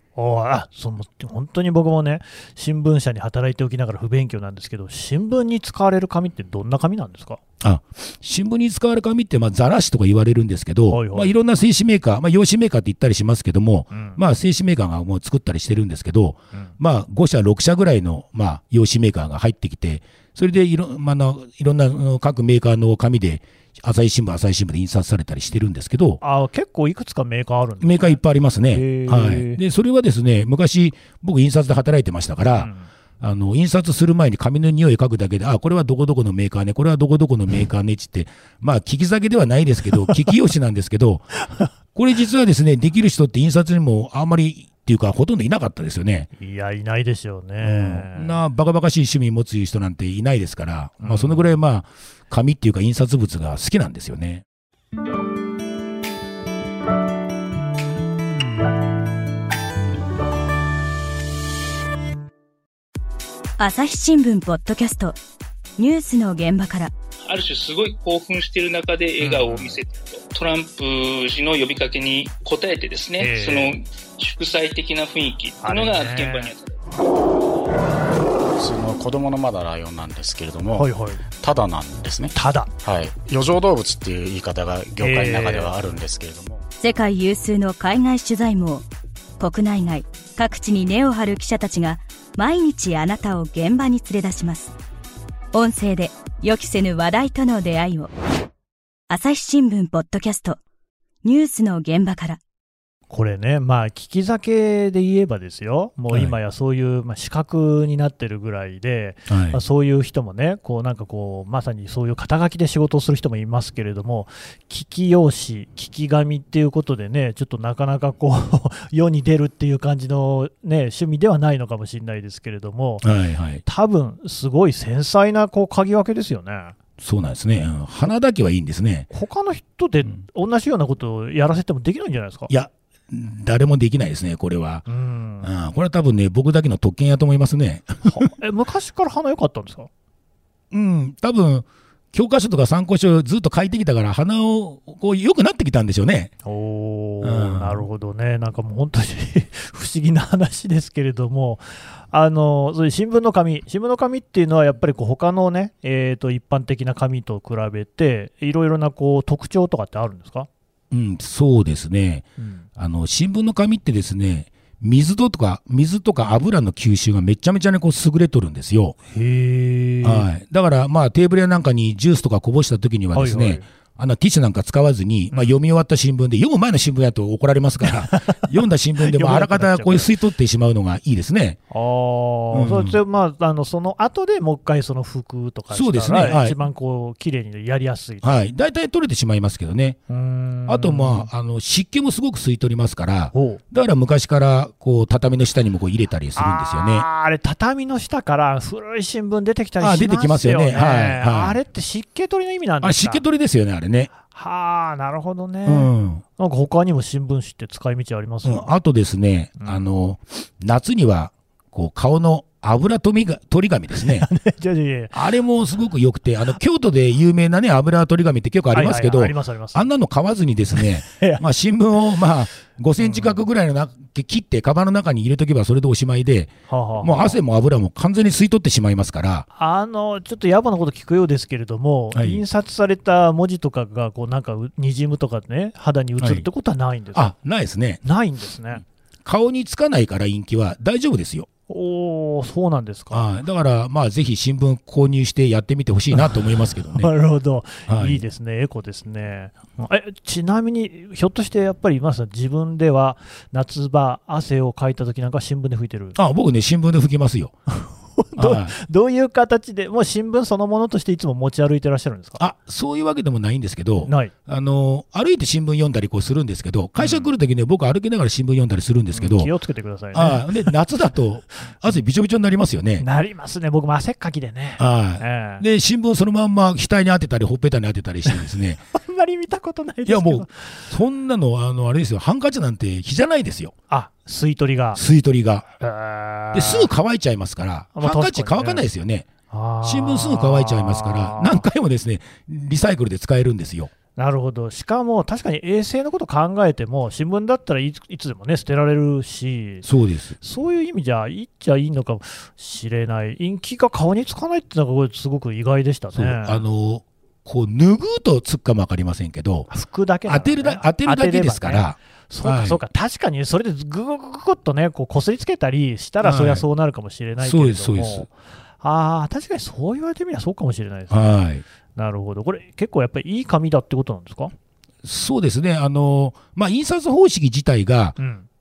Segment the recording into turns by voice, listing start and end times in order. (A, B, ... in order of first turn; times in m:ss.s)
0:00.2-0:07.4 A
0:07.6-0:26.2 B
0:10.9-0:11.3 A
0:13.9-0:14.2 A
0:26.2-0:28.2 A
0:27.8-0:41.4 B
0:28.7-0:29.6 A
0:32.6-0:32.9 A
0:41.9-0:46.3 B
0:46.4-0:48.4 A
0:47.6-0:54.4 B
0:51.0-0:51.5 A
1:03.6-1:05.2 C
1:05.8-1:06.9 C
1:07.2-1:16.7 D
1:09.2-1:09.8 A
1:13.2-1:13.8 A
1:15.6-1:16.5 A
1:18.6-1:20.9 E
1:20.8-1:21.2 A
1:21.4-1:26.6 E
1:22.4-1:22.7 A
1:25.0-1:25.7 A
1:26.8-1:28.9 C
1:29.4-1:34.7 C
1:35.5-1:38.1 C
1:39.1-1:40.6 C
1:41.2-1:42.4 C
1:43.1-2:03.0 A
1:49.3-1:49.6 B
2:03.0-2:03.6 B
2:03.6-2:06.8 A
2:07.0-2:09.1 B
2:09.1-2:12.5 A
2:12.5-2:14.8 B
2:14.9-2:15.5 A
2:15.4-2:18.3 B
2:18.0-2:19.9 A
2:20.7-2:26.3 B
2:26.4-2:40.5 A
2:27.2-2:27.8 B
2:40.9-2:49.0 B
2:42.4-2:42.7 A
2:49.1-2:50.3 A
2:50.0-3:01.6 B
2:53.1-2:53.7 A
2:58.1-2:58.5 A
2:59.0-3:00.1 A
3:01.7-3:08.2 A
3:02.5-3:03.0 B
3:05.7-3:06.6 B
3:08.2-3:10.0 B
3:10.1-3:11.3 A
3:10.7-3:17.1 B
3:13.3-3:13.6 A
3:16.4-3:23.2 A
3:19.8-3:21.6 B
3:22.8-3:24.1 B
3:24.2-3:28.7 A
3:25.7-3:26.2 B
3:28.4-3:34.3 B
3:29.6-3:29.9 A
3:33.9-3:35.2 A
3:35.1-3:49.5 B
3:38.7-3:39.9 A
3:40.7-3:41.4 A
3:43.0-3:43.4 A
3:46.7-3:47.4 A
3:49.6-3:57.3 A
3:52.2-3:52.4 B
3:56.2-3:56.5 B
3:57.1-3:58.0 B
3:58.0-3:58.8 A
3:59.2-4:01.5 B
4:01.7-4:03.3 A
4:03.1-4:07.1 B
4:06.9-4:16.2 A
4:07.9-4:08.2 B
4:16.2-4:17.5 B
4:17.7-4:22.4 A
4:18.4-4:18.8 B
4:22.4-4:29.5 B
4:24.1-4:24.3 A
4:27.0-4:27.3 A
4:29.1-4:30.8 A
4:30.1-4:33.0 B
4:33.0-4:35.6 A
4:34.8-4:38.8 B
4:38.9-4:40.8 A
4:40.1-4:43.8 B
4:43.9-4:45.0 A
4:44.9-4:45.7 B
4:45.8-4:46.9 A
4:46.5-4:49.3 B
4:48.0-4:48.8 A
4:49.5-4:51.6 A
4:49.8-4:53.9 B
4:54.2-4:59.8 A
4:59.8-5:00.4 B
5:00.4-5:06.6 A
5:06.1-5:09.7 B
5:09.7-5:21.4 A
5:10.3-5:12.8 B
5:16.2-5:16.6 B
5:17.4-5:18.3 B
5:21.1-5:21.6 B
5:22.0-5:24.5 A
5:25.0-5:28.2 B
5:28.2-5:28.5 A